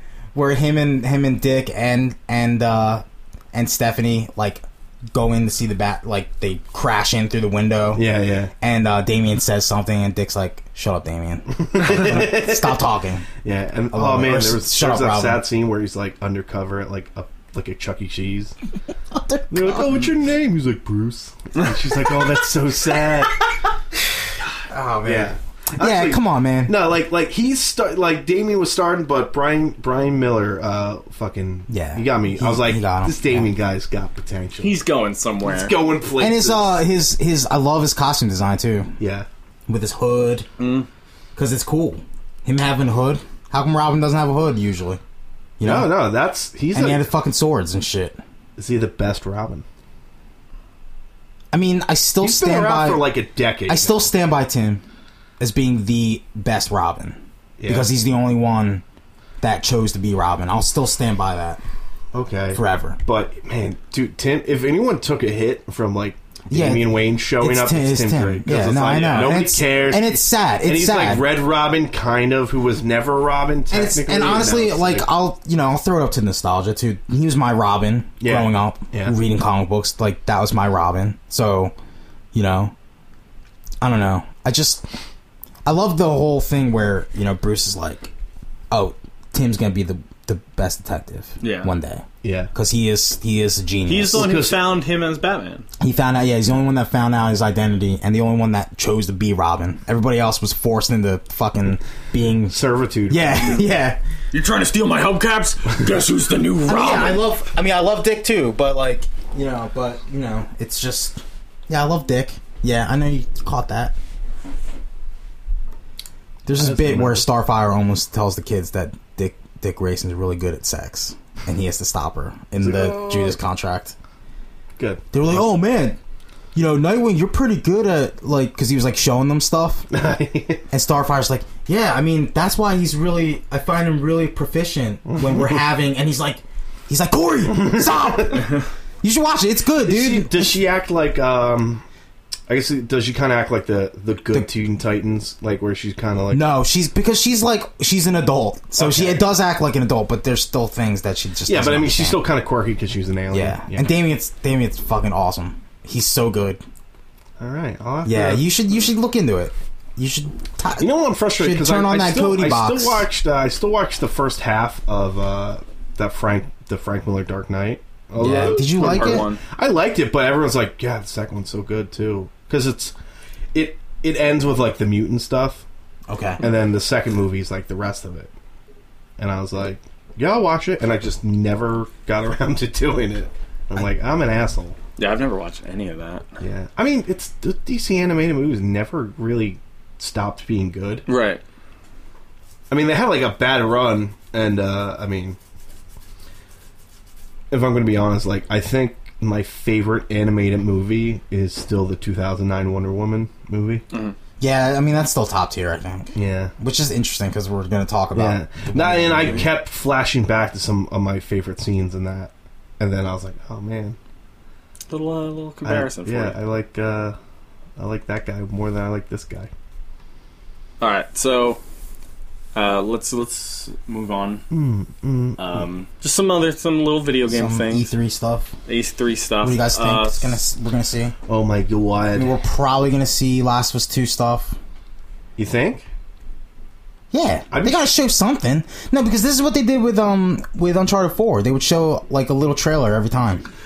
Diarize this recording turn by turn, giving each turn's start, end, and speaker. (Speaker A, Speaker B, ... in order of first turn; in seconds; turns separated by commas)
Speaker A: 0.3-8.1, Speaker B: 7.9-8.5, Speaker A: 8.6-13.3, Speaker B: 11.5-12.8, Speaker B: 13.4-18.5, Speaker A: 13.9-15.4, Speaker A: 19.1-20.1, Speaker B: 19.5-23.4, Speaker A: 24.7-26.8, Speaker B: 25.1-34.8, Speaker A: 31.7-33.5, Speaker C: 34.6-35.8, Speaker B: 35.4-36.8, Speaker A: 36.2-38.9, Speaker B: 39.0-39.3, Speaker A: 39.7-40.5, Speaker C: 40.6-40.9, Speaker A: 41.4-45.0, Speaker A: 45.6-45.9, Speaker B: 45.6-47.1, Speaker A: 46.7-48.2, Speaker B: 48.6-49.6, Speaker A: 51.5-53.1, Speaker B: 52.2-54.1, Speaker A: 53.7-54.8, Speaker A: 55.4-58.8, Speaker B: 57.6-57.9, Speaker A: 59.4-61.6, Speaker B: 62.1-75.1, Speaker A: 62.5-63.0, Speaker A: 66.5-71.3, Speaker A: 73.7-81.7, Speaker B: 78.2-79.2, Speaker A: 82.3-82.7, Speaker A: 83.8-84.8, Speaker A: 85.7-88.1, Speaker A: 88.7-94.4, Speaker C: 91.4-91.7, Speaker B: 92.2-92.5, Speaker C: 93.9-95.7, Speaker B: 94.1-94.7, Speaker A: 95.8-104.0, Speaker B: 102.5-103.4, Speaker C: 104.3-107.2, Speaker A: 106.7-114.0, Speaker A: 116.5-124.0, Speaker B: 116.5-117.3, Speaker B: 122.6-123.4, Speaker B: 124.8-125.4, Speaker A: 125.1-126.0, Speaker A: 126.5-129.9, Speaker B: 129.9-130.7, Speaker A: 130.7-140.6, Speaker B: 135.1-135.6, Speaker B: 137.5-138.5, Speaker B: 139.8-141.8, Speaker B: 142.5-146.5, Speaker A: 146.3-152.2, Speaker B: 148.8-149.1, Speaker B: 151.5-153.9, Speaker A: 153.3-156.6, Speaker B: 157.4-158.5, Speaker A: 158.1-163.1, Speaker B: 160.8-172.9, Speaker A: 168.2-169.3, Speaker C: 168.3-169.4, Speaker B: 173.5-175.7, Speaker A: 176.1-176.4, Speaker B: 176.4-178.3, Speaker B: 179.2-184.8, Speaker C: 185.0-186.3, Speaker B: 186.4-191.1, Speaker C: 191.1-191.4, Speaker B: 192.7-195.4, Speaker B: 197.5-203.8, Speaker C: 203.9-204.2, Speaker A: 204.4-209.5, Speaker B: 206.2-206.5, Speaker B: 208.2-214.0, Speaker C: 214.9-216.4, Speaker B: 215.7-217.2, Speaker B: 217.8-219.5, Speaker C: 220.8-221.6, Speaker C: 222.6-224.4, Speaker B: 224.5-225.4, Speaker C: 225.4-227.9, Speaker A: 227.2-228.5, Speaker C: 228.7-230.4, Speaker A: 229.4-231.2, Speaker B: 231.3-232.3, Speaker A: 232.2-234.6, Speaker B: 235.4-235.8, Speaker A: 237.1-243.4, Speaker B: 237.5-237.9